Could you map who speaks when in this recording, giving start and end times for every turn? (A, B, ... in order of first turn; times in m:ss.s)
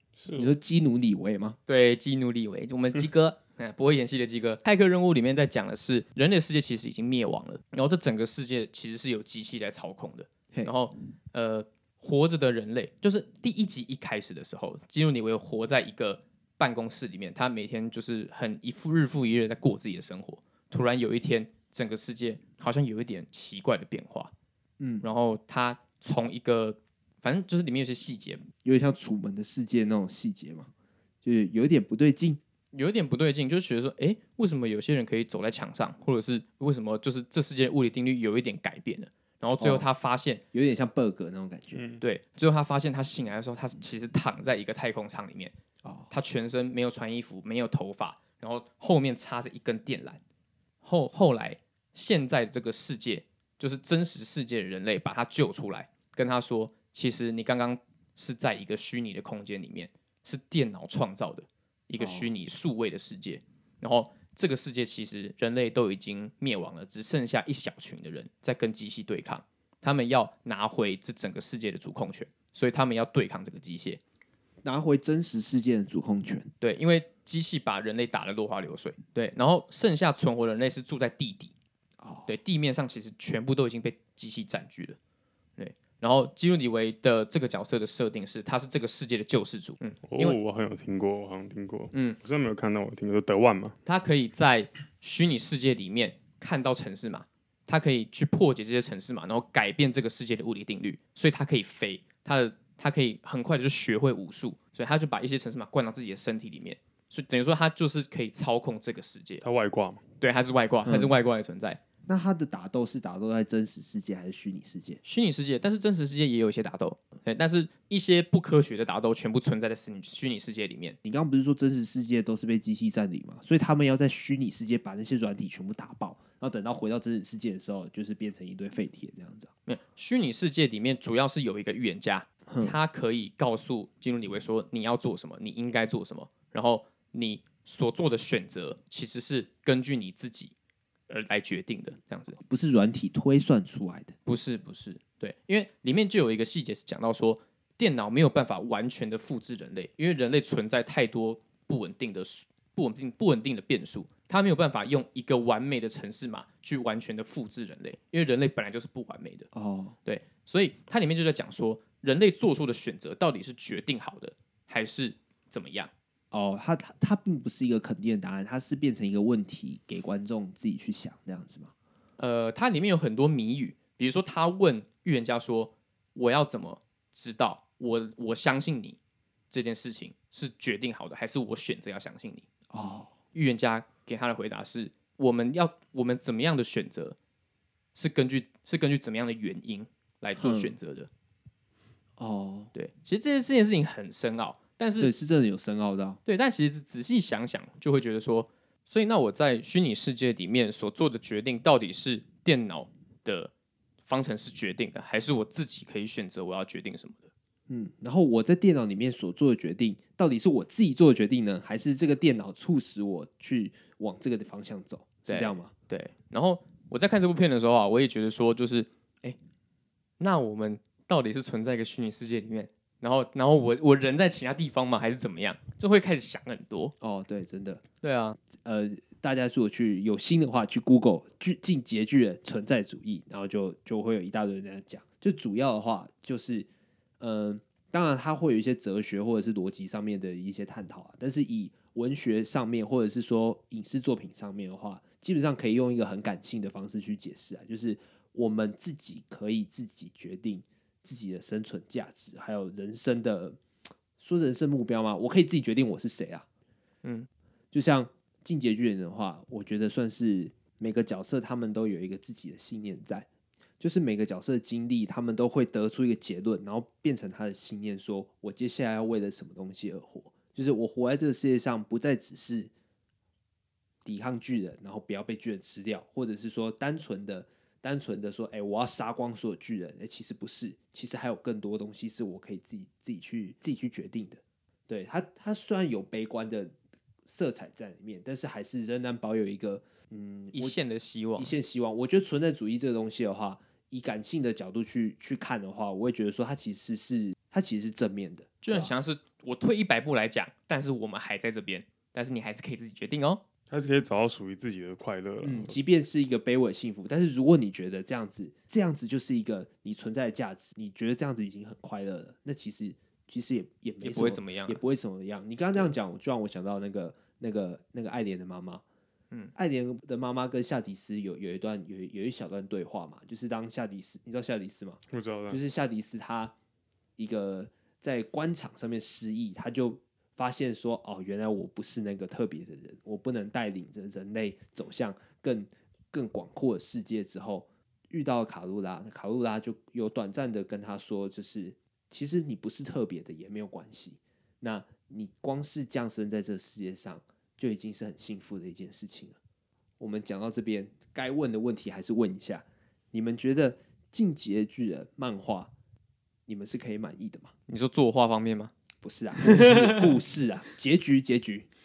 0:00.2-0:00.5 A
0:00.3-0:01.6 B
0:01.7-0:24.3 C
0:24.8-0:25.1 B
0:25.0-0:28.4 C
0:28.6-0:30.7 B
0:31.2-0:32.4 B
0:32.7-0:40.4 C
0:39.6-0:39.9 B
0:40.5-0:41.8 B
0:41.7-0:42.0 A
0:42.0-0:45.5 C
0:45.8-0:46.1 B
0:46.1-0:50.2 C
0:50.8-1:14.0 C
1:02.0-1:02.3 B
1:14.6-1:16.5 B
1:16.6-1:21.5 C
1:22.0-1:22.3 B
1:22.3-1:25.0 C
1:25.6-1:30.4 C
1:30.0-1:33.8 A
1:31.9-1:32.2 C
1:33.8-1:49.4 C
1:49.4-1:50.0 A
1:50.2-1:51.8 C
1:50.8-1:51.1 B
1:52.1-1:55.0 B
1:55.0-2:01.0 C
2:01.0-2:09.5 B
2:09.7-2:20.5 C
2:12.5-2:12.7 B
2:21.1-2:22.4 C
2:22.4-2:24.1 B
2:24.2-2:39.5 C
2:39.5-2:40.0 B
2:40.0-2:45.9 C
2:46.3-2:51.7 B
2:52.2-2:59.0 C
2:59.5-3:02.5 C
3:02.7-3:03.1 B
3:03.3-3:07.2 C
3:07.9-3:11.1 C
3:10.4-3:10.7 B
3:12.2-3:12.7 B
3:12.7-3:15.1 C
3:15.0-3:16.2 B
3:16.2-3:23.5 C
3:24.0-3:27.3 C
3:27.7-3:35.7 B
3:35.3-3:39.4 C
3:40.2-3:46.9 C
3:47.0-3:47.8 B
3:48.0-3:48.4 C
3:48.4-3:56.7 B
3:57.2-4:13.6 B
4:14.2-4:16.4 B
4:17.7-4:23.3 B
4:23.8-4:32.7 B
4:34.0-4:50.8 B
4:50.5-4:51.5 C
4:51.4-4:58.9 B
4:58.6-5:03.4 C
5:03.7-5:05.8 A
5:05.4-5:18.8 B
5:14.0-5:14.8 C
5:19.5-5:26.5 B
5:25.1-5:25.6 A
5:27.2-5:49.4 B
5:50.0-5:55.7 B
5:56.5-5:57.5 B
5:57.7-5:58.7 C
5:59.0-6:01.7 B
5:59.4-6:00.1 C